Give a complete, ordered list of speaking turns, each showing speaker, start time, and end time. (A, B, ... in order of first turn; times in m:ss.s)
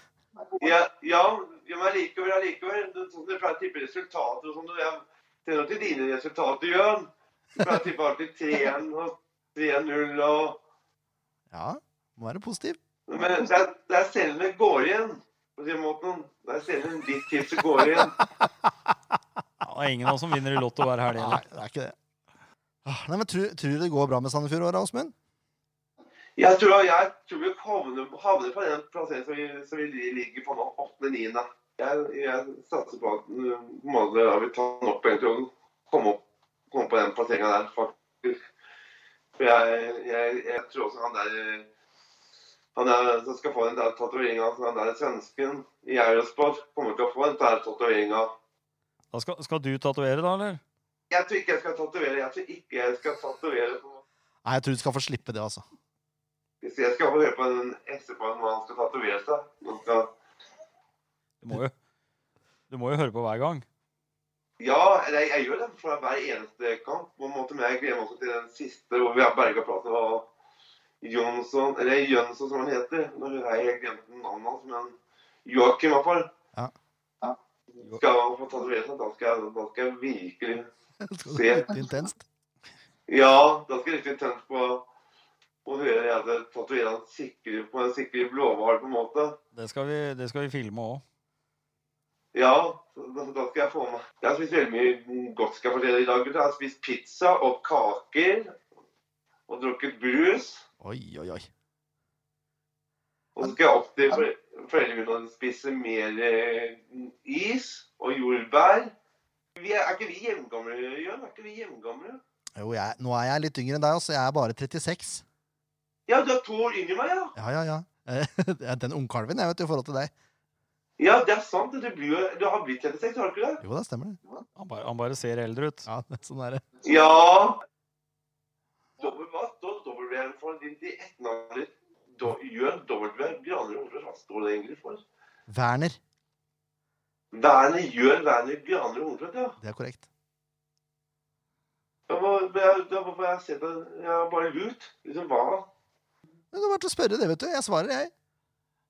0:00.6-0:10.6 A
0:11.5-0:12.8 B
0:13.1-0:18.2 A
0:19.6-0:21.5 C
0:21.2-0:21.9 B
0:22.8-0:25.1 B
0:26.4-0:38.4 A
0:39.4-0:41.7 A
0:42.8-0:48.3 A
0:49.1-0:50.6 C
0:51.1-0:54.0 A
0:54.4-0:55.6 B
0:56.6-1:00.1 A
1:01.4-1:01.7 C
1:02.7-1:03.6 C
1:04.6-1:10.3 A
1:11.0-1:16.3 A
1:17.8-1:20.7 A
1:21.0-1:22.2 B
1:21.3-1:21.8 A
1:23.1-1:24.9 A
1:25.6-1:29.4 A
1:29.6-1:31.0 C
1:32.3-1:38.6 A
1:39.5-1:40.6 A
1:40.8-1:41.5 B
1:43.4-1:48.9 A
1:49.6-1:52.2 A
1:52.6-1:55.2 B
1:56.1-1:57.3 A
1:57.4-2:00.1 B
2:01.0-2:03.6 A
2:03.6-2:04.2 B
2:04.6-2:05.9 C
2:05.9-2:06.6 B
2:06.8-2:07.6 A
2:09.0-2:15.0 A
2:15.5-2:16.0 B
2:17.3-2:19.6 A
2:19.6-2:20.0 B
2:22.1-2:25.7 A
2:26.5-2:28.1 B